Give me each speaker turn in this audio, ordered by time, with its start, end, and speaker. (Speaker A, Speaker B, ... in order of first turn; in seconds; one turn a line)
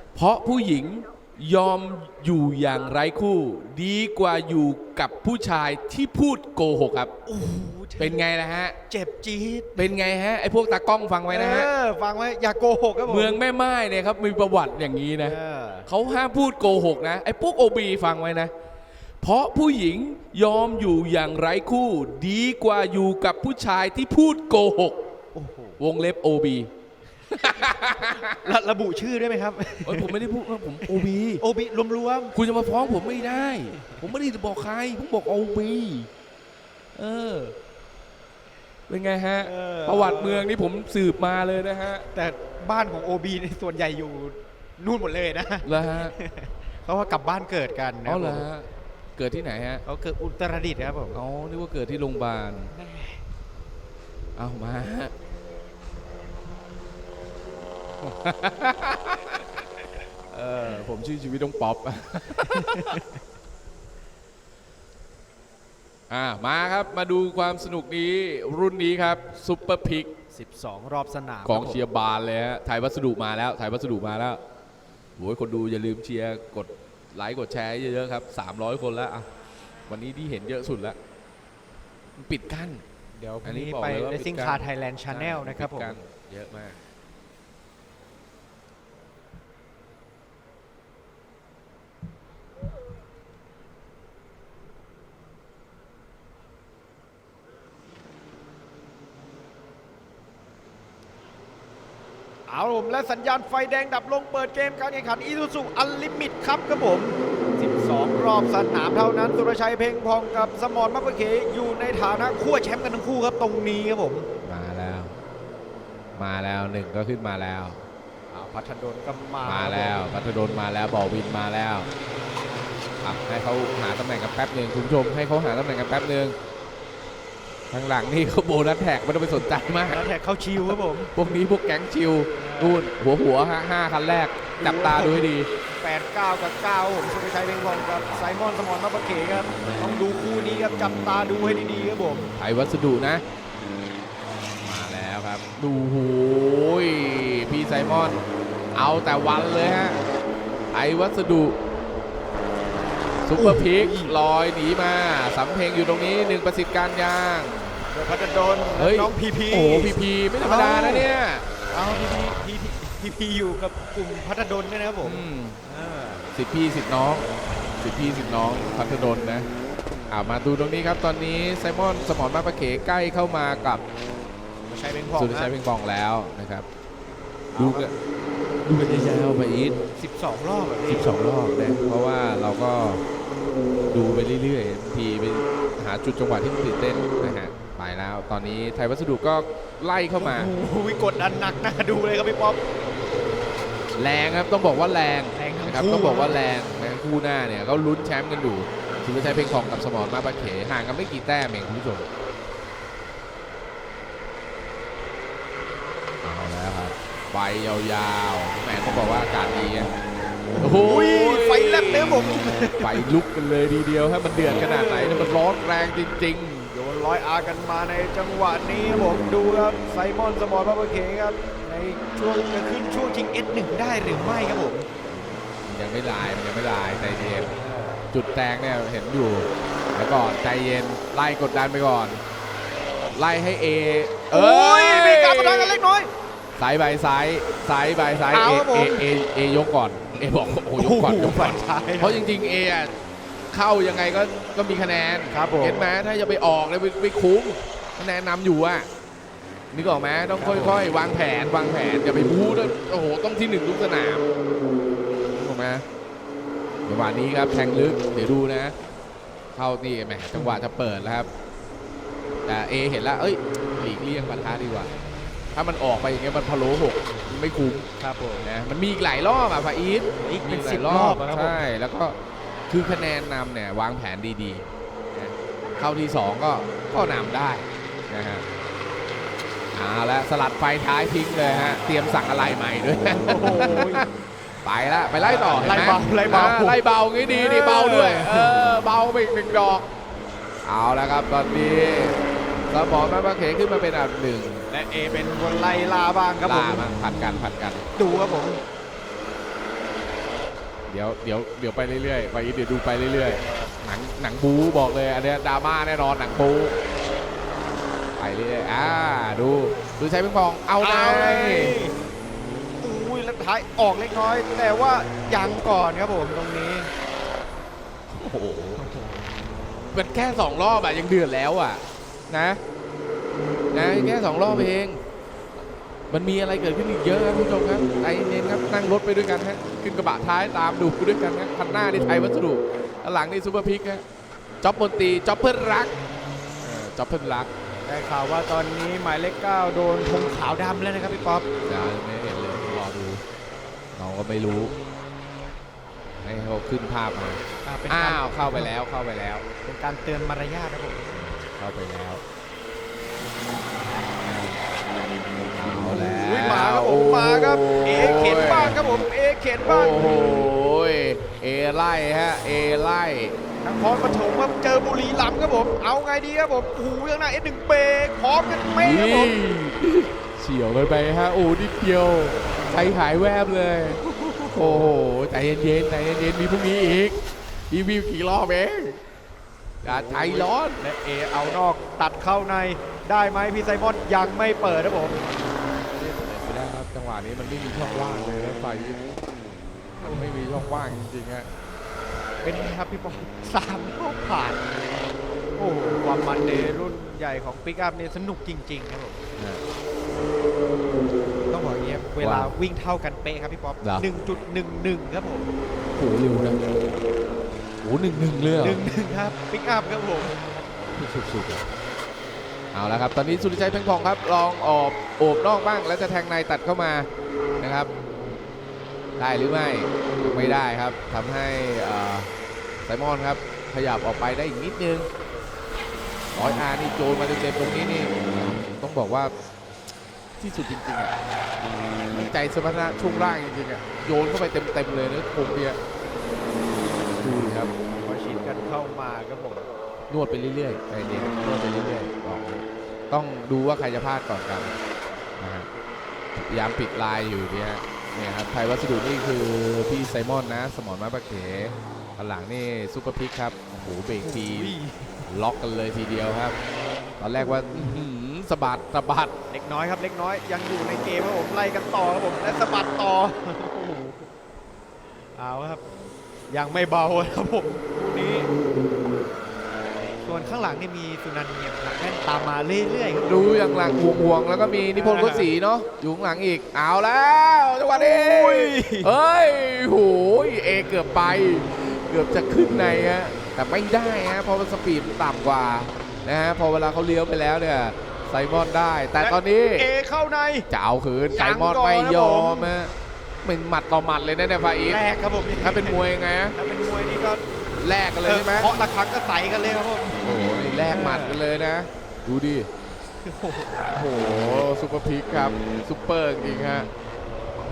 Speaker A: 0.1-7.1
Speaker B: 7.2-8.2
Speaker A: 8.0-8.8
Speaker B: 8.9-9.9
Speaker A: 9.8-11.7
Speaker B: 11.3-13.4
Speaker A: 13.1-18.5
Speaker B: 15.2-15.9
Speaker A: 19.2-25.0
Speaker B: 25.3-25.8
Speaker A: 25.8-26.7
Speaker A: 27.3-28.4
Speaker B: 28.4-30.2
Speaker A: 29.8-31.4
Speaker B: 30.9-32.3
Speaker A: 32.3-36.1
Speaker A: 36.9-37.5
Speaker A: 38.9-42.1
Speaker B: 39.4-40.5
Speaker B: 42.1-48.5
Speaker A: 45.6-46.1
Speaker A: 48.0-49.8
Speaker B: 49.8-51.2
Speaker A: 51.1-52.7
Speaker B: 52.7-53.2
Speaker A: 54.4-55.1
Speaker A: 58.0-59.6
Speaker A: 60.3-63.0
Speaker B: 62.4-63.0
Speaker A: 66.1-70.1
Speaker B: 70.3-71.8
Speaker A: 71.4-74.4
Speaker A: 75.2-79.3
Speaker A: 79.9-81.0
Speaker A: 82.2-82.8
Speaker B: 83.2-86.0
Speaker A: 83.4-86.8
Speaker B: 102.5-114.3
Speaker A: 114.4-115.2
Speaker A: 116.2-117.9
Speaker B: 118.3-120.0
Speaker A: 119.4-121.9
Speaker A: 123.0-126.3
Speaker A: 127.7-130.1
Speaker B: 129.9-131.1
Speaker A: 130.7-135.5
Speaker B: 132.4-132.8
Speaker B: 134.6-142.3
Speaker A: 142.4-143.2
Speaker A: 144.6-148.2
Speaker A: 148.7-150.0
Speaker A: 150.7-151.6
Speaker A: 153.2-157.8
Speaker B: 153.3-154.2
Speaker B: 157.9-161.1
Speaker A: 158.8-161.4
Speaker B: 161.7-166.2
Speaker A: 165.0-165.6
Speaker A: 166.3-167.2
Speaker A: 167.8-169.5
Speaker A: 170.1-173.8
Speaker B: 174.7-175.5
Speaker A: 175.1-176.7
Speaker B: 177.5-177.9
Speaker A: 177.6-177.9
Speaker A: 178.6-179.8
Speaker B: 179.9-181.1
Speaker A: 180.8-183.0
Speaker A: 183.9-190.5
Speaker B: 190.2-192.6
Speaker A: 193.9-202.1
Speaker B: 195.3-196.4
Speaker A: 206.2-209.9
Speaker B: 210.5-213.0
Speaker A: 210.6-216.7
Speaker B: 214.5-215.3
Speaker B: 216.7-224.9
Speaker A: 225.6-227.6
Speaker B: 227.4-228.0
Speaker A: 228.1-232.2
Speaker A: 233.1-235.8
Speaker B: 234.3-236.1
Speaker A: 236.6-242.9
Speaker B: 238.3-239.1
Speaker B: 240.8-242.2
Speaker A: 243.5-248.9
Speaker B: 245.3-245.9
Speaker A: 249.7-254.2
Speaker B: 250.4-250.8
Speaker A: 255.3-255.8
Speaker A: 256.9-258.7
Speaker A: 259.5-261.3
Speaker A: 262.4-264.9
Speaker A: 265.5-267.9
Speaker B: 268.0-268.5
Speaker A: 268.4-272.1
Speaker B: 270.2-271.6
Speaker A: 272.7-278.4
Speaker A: 279.7-284.1
Speaker B: 283.1-284.1
Speaker A: 284.6-289.9
Speaker B: 285.2-288.7
Speaker A: 290.6-294.6
Speaker B: 294.7-297.4
Speaker A: 296.4-297.9
Speaker B: 297.9-298.6
Speaker A: 300.9-306.7
Speaker A: 308.2-311.8
Speaker B: 310.8-311.9
Speaker B: 312.8-316.9
Speaker A: 318.1-318.8
Speaker B: 318.8-319.3
Speaker A: 319.9-322.6
Speaker A: 323.7-325.0
Speaker A: 326.1-334.0
Speaker A: 334.6-335.9
Speaker A: 336.6-337.5
Speaker B: 337.8-341.4
Speaker A: 341.6-343.2
Speaker A: 343.9-344.7
Speaker A: 346.2-349.4
Speaker B: 347.6-348.7
Speaker B: 349.6-351.1
Speaker A: 351.1-352.2
Speaker A: 354.2-354.6
Speaker A: 355.5-358.8
Speaker B: 355.9-360.1
Speaker A: 359.6-363.4
Speaker B: 363.6-369.3
Speaker A: 368.8-374.0
Speaker B: 374.1-374.6
Speaker A: 374.5-377.2
Speaker A: 377.7-379.0
Speaker A: 379.8-380.8
Speaker B: 379.8-385.2
Speaker A: 385.9-389.0
Speaker A: 390.0-391.5
Speaker B: 390.0-390.3
Speaker B: 392.4-394.7
Speaker B: 395.6-399.2
Speaker A: 399.4-399.6
Speaker B: 401.5-405.5
Speaker A: 402.2-402.5
Speaker A: 403.8-404.1
Speaker A: 405.9-406.6
Speaker A: 407.8-408.8
Speaker B: 408.6-410.7
Speaker A: 410.9-411.7
Speaker A: 412.7-417.1
Speaker A: 417.6-417.9
Speaker A: 419.2-422.3
Speaker A: 422.9-425.1
Speaker A: 426.3-429.3
Speaker A: 430.4-431.1
Speaker A: 432.1-435.8
Speaker A: 437.2-437.7
Speaker B: 437.9-439.7
Speaker A: 440.1-444.7
Speaker A: 445.4-445.7
Speaker A: 446.4-454.7
Speaker B: 454.2-455.2
Speaker A: 455.3-456.6
Speaker A: 457.2-459.3
Speaker B: 459.5-464.3
Speaker B: 465.3-465.8
Speaker B: 466.5-468.5
Speaker B: 470.2-473.3
Speaker A: 473.2-489.9
Speaker B: 474.9-475.5
Speaker B: 477.9-479.1
Speaker B: 489.2-490.7
Speaker A: 490.7-495.0
Speaker B: 491.3-492.7
Speaker B: 494.8-497.4
Speaker A: 495.6-496.6
Speaker A: 497.8-498.7
Speaker B: 498.2-500.2
Speaker A: 500.2-502.7
Speaker B: 500.8-501.4
Speaker B: 503.2-503.9
Speaker A: 503.8-506.9